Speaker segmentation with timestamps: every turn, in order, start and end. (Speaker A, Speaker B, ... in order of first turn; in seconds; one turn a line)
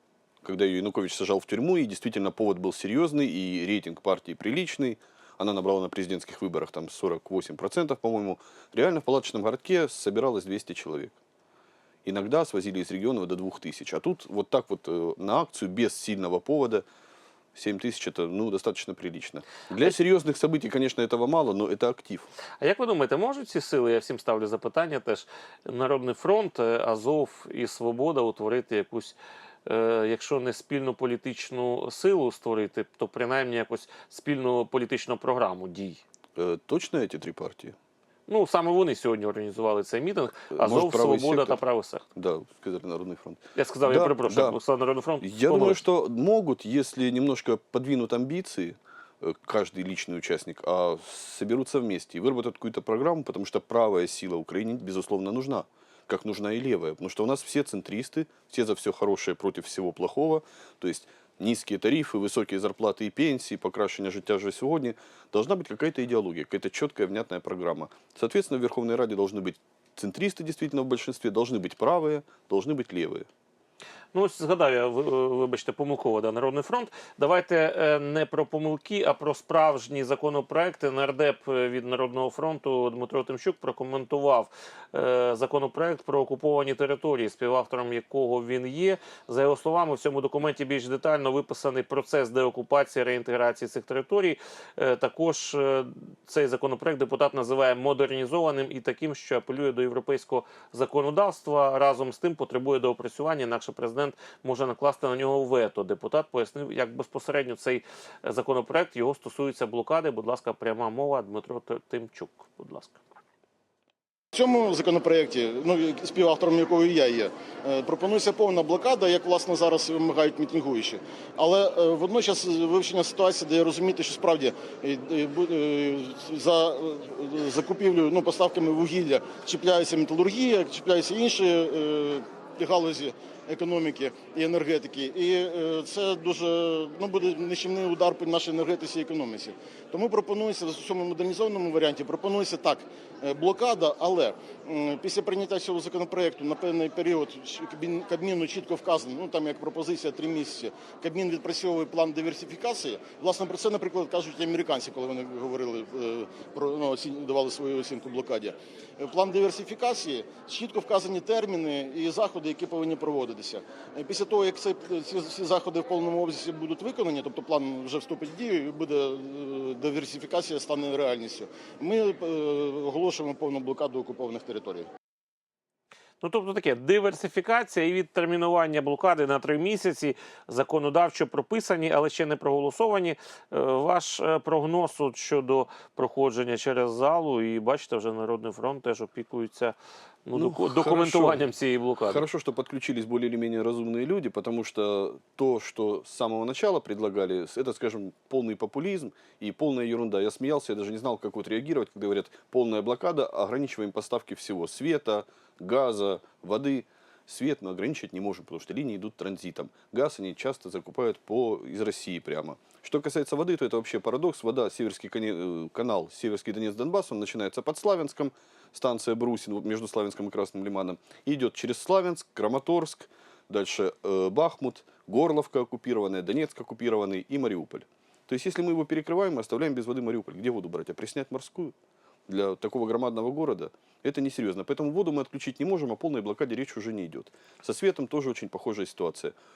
Speaker A: 0.4-11.2
Speaker A: 12.0-16.8
Speaker A: 17.5-22.3
Speaker B: 22.6-36.0
Speaker A: 36.4-37.7
Speaker B: 38.3-42.0
Speaker A: 40.5-41.6
Speaker A: 42.1-44.6
Speaker B: 43.5-45.8
Speaker A: 45.2-73.3
Speaker B: 74.1-113.0
Speaker C: 114.3-174.8
Speaker B: 176.2-192.2
Speaker A: 190.3-191.4
Speaker A: 192.0-231.7
Speaker A: 232.3-239.3